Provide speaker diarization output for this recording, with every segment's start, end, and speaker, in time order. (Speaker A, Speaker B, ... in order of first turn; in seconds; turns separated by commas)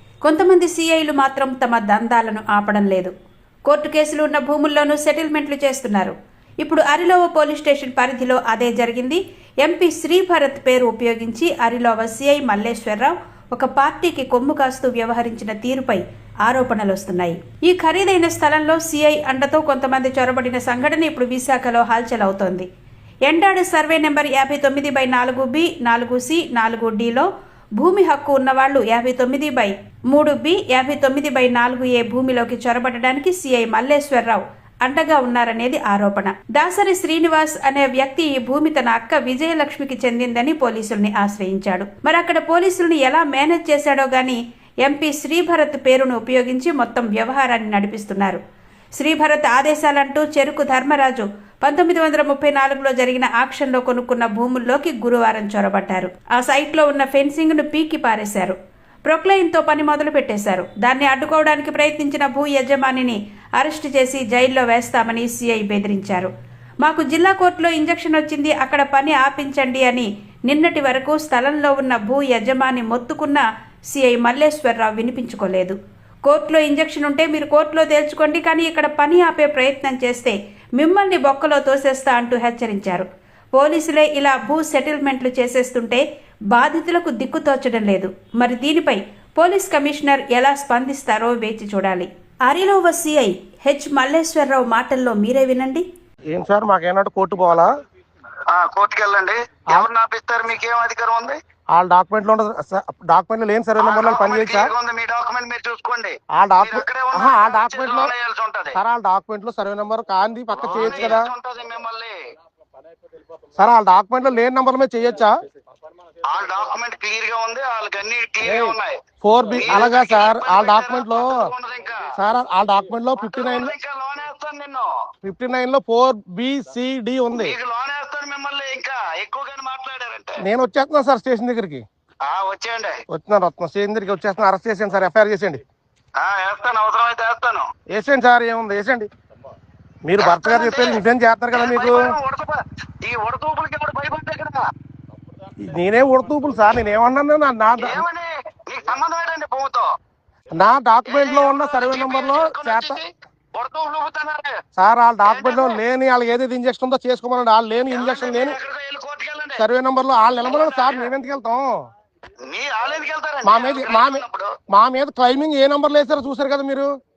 Speaker A: 0.2-3.1, Speaker A: 3.7-22.6, Speaker A: 23.2-27.2, Speaker A: 27.8-48.4, Speaker A: 49.0-66.3, Speaker A: 66.8-83.0, Speaker A: 83.5-86.0, Speaker A: 86.5-95.8, Speaker B: 96.3-97.7, Speaker C: 98.5-101.4, Speaker B: 101.7-104.7, Speaker C: 103.8-108.8, Speaker B: 106.3-108.1, Speaker B: 108.7-111.3, Speaker C: 110.5-112.1, Speaker B: 113.5-115.3, Speaker C: 116.3-119.0, Speaker B: 118.4-121.3, Speaker C: 119.5-122.0, Speaker B: 122.2-123.7, Speaker C: 123.2-124.9, Speaker B: 125.2-127.5, Speaker C: 127.3-130.4, Speaker B: 130.4-131.8, Speaker C: 132.2-132.9, Speaker B: 133.1-135.6, Speaker C: 136.2-137.7, Speaker B: 137.9-139.1, Speaker B: 140.0-142.0, Speaker C: 140.2-144.6, Speaker B: 145.6-148.0, Speaker C: 147.8-149.8, Speaker B: 150.5-153.0, Speaker C: 151.1-154.5, Speaker B: 154.8-158.6, Speaker C: 155.2-155.8, Speaker C: 157.9-159.6, Speaker B: 159.6-161.7, Speaker C: 160.4-161.1, Speaker C: 162.5-164.5, Speaker B: 163.4-166.9